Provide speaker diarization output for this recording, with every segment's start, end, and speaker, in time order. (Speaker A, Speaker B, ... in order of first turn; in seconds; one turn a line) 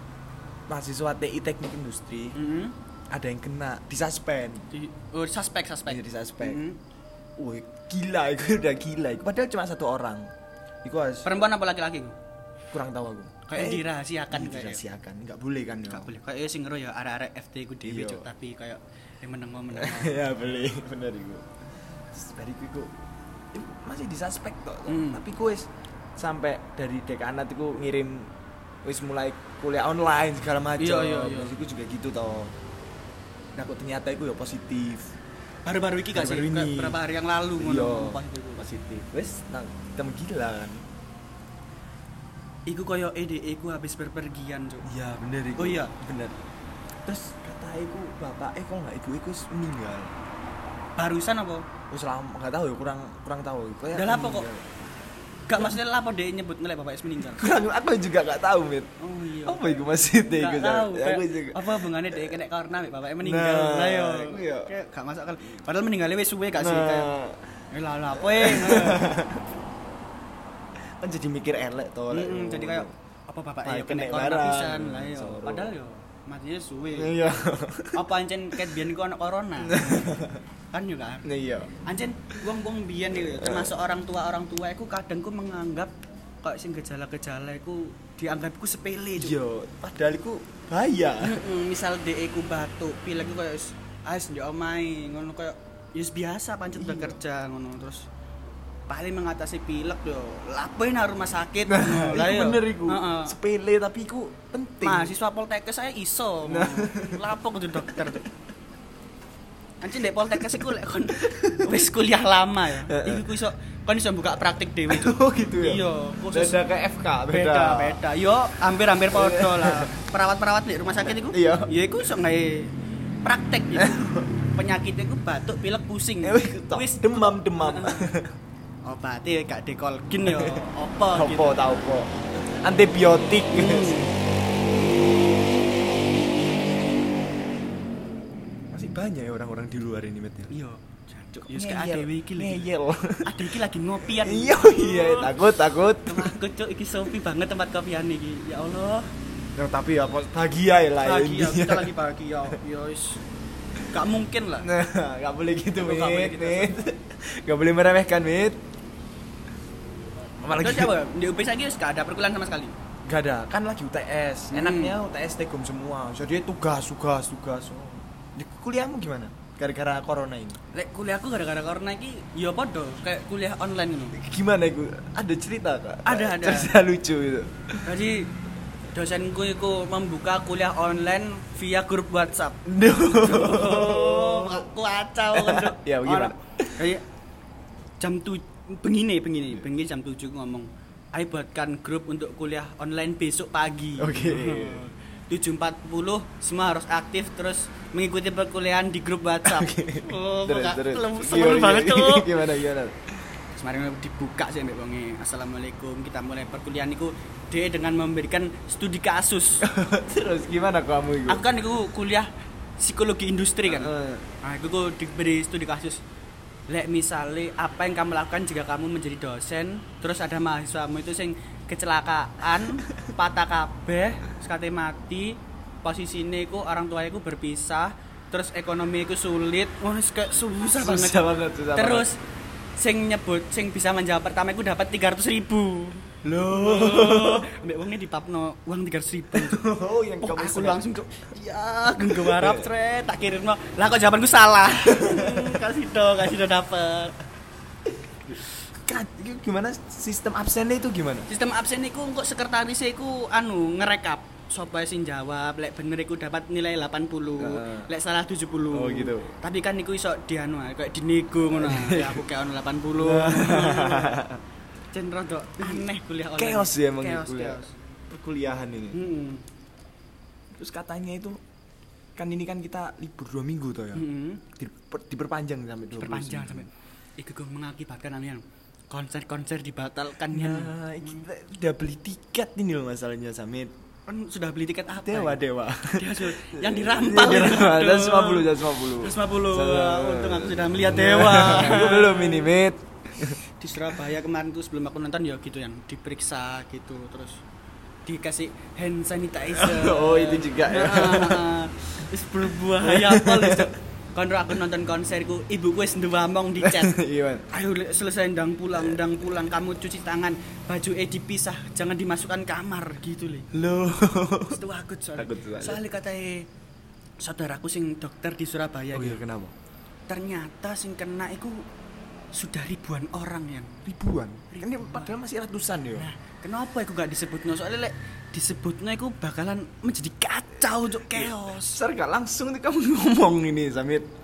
Speaker A: 0.7-2.4
Speaker B: 2.3-2.7
Speaker A: 3.1-4.7
Speaker B: 4.7-6.8
Speaker A: 5.8-6.6
Speaker A: 7.4-10.3
Speaker A: 10.8-11.3
Speaker B: 11.2-12.2
Speaker A: 12.7-16.1
Speaker B: 13.5-14.8
Speaker B: 15.9-20.3
Speaker A: 17.8-18.3
Speaker A: 19.7-21.4
Speaker A: 22.1-22.9
Speaker A: 23.5-28.3
Speaker B: 24.9-25.2
Speaker A: 28.8-32.5
Speaker B: 30.8-31.6
Speaker A: 33.5-35.1
Speaker B: 35.6-38.6
Speaker A: 36.1-37.0
Speaker A: 37.6-40.9
Speaker B: 42.7-44.9
Speaker A: 44.8-46.4
Speaker B: 45.6-45.9
Speaker A: 47.0-50.1
Speaker B: 51.0-51.7
Speaker A: 51.9-54.8
Speaker B: 53.9-54.5
Speaker B: 55.5-57.5
Speaker A: 57.2-58.9
Speaker B: 59.0-67.1
Speaker A: 59.5-62.2
Speaker A: 63.2-64.7
Speaker A: 66.5-67.4
Speaker B: 67.7-69.2
Speaker A: 68.1-69.4
Speaker A: 71.0-72.9
Speaker B: 72.1-77.2
Speaker A: 73.6-75.7
Speaker A: 76.9-78.0
Speaker B: 77.9-81.2
Speaker A: 79.6-80.4
Speaker A: 81.2-81.7
Speaker B: 81.8-89.4
Speaker A: 83.2-83.7
Speaker A: 89.2-91.4
Speaker B: 91.2-98.1
Speaker A: 96.7-97.2
Speaker B: 98.9-103.4
Speaker A: 101.7-105.1
Speaker B: 104.8-108.2
Speaker A: 106.4-107.2
Speaker B: 109.8-116.6
Speaker A: 110.5-111.8
Speaker A: 112.8-113.3
Speaker A: 114.9-118.0
Speaker B: 117.3-122.7
Speaker A: 119.1-119.9
Speaker A: 121.0-121.7
Speaker B: 123.2-128.2
Speaker A: 123.7-124.3
Speaker A: 126.2-128.3
Speaker B: 128.8-131.7
Speaker A: 130.2-134.1
Speaker B: 133.5-134.1
Speaker A: 138.7-140.5
Speaker B: 140.5-142.7
Speaker A: 141.4-146.4
Speaker B: 143.2-145.5
Speaker B: 146.0-149.1
Speaker A: 149.5-151.9
Speaker B: 151.0-153.2
Speaker B: 153.9-154.7
Speaker A: 154.6-158.6
Speaker B: 155.8-156.7
Speaker A: 160.4-160.9
Speaker B: 160.6-162.7
Speaker A: 163.0-170.6
Speaker B: 164.5-164.9
Speaker B: 170.7-174.2
Speaker A: 174.1-177.8
Speaker B: 176.0-176.7
Speaker B: 177.8-178.3
Speaker B: 178.9-182.6
Speaker A: 182.7-184.7
Speaker B: 183.2-187.0
Speaker A: 185.3-186.9
Speaker B: 188.0-202.3
Speaker A: 194.0-194.8
Speaker A: 199.4-203.1
Speaker B: 203.5-209.6
Speaker A: 209.6-211.4
Speaker B: 211.3-216.0
Speaker A: 213.6-214.2
Speaker B: 216.7-232.2
Speaker A: 230.7-232.1
Speaker B: 232.8-239.6
Speaker A: 236.2-237.5
Speaker A: 239.3-240.8
Speaker B: 240.2-247.2
Speaker A: 241.9-242.7
Speaker A: 244.8-245.6
Speaker A: 248.7-251.3
Speaker B: 251.3-264.2
Speaker A: 257.4-257.9
Speaker A: 258.7-259.3
Speaker A: 261.5-262.2
Speaker A: 262.9-264.4
Speaker B: 264.9-267.7
Speaker A: 266.4-269.0
Speaker B: 268.9-269.4
Speaker A: 270.5-271.4
Speaker A: 272.1-276.7
Speaker B: 273.9-274.4
Speaker B: 275.9-281.2
Speaker A: 280.3-283.7
Speaker B: 284.1-292.5
Speaker A: 285.0-293.4
Speaker B: 293.2-297.4
Speaker B: 298.0-306.9
Speaker A: 299.4-301.5
Speaker A: 302.8-303.7
Speaker A: 306.6-307.4
Speaker B: 307.5-313.5
Speaker A: 308.7-309.1
Speaker A: 313.5-314.6
Speaker B: 314.5-316.5
Speaker A: 315.1-315.8
Speaker B: 317.2-319.2
Speaker A: 318.9-319.5
Speaker B: 320.1-321.6
Speaker B: 322.3-323.8
Speaker A: 323.8-326.1
Speaker B: 324.5-325.2
Speaker B: 325.9-331.8
Speaker A: 331.1-334.1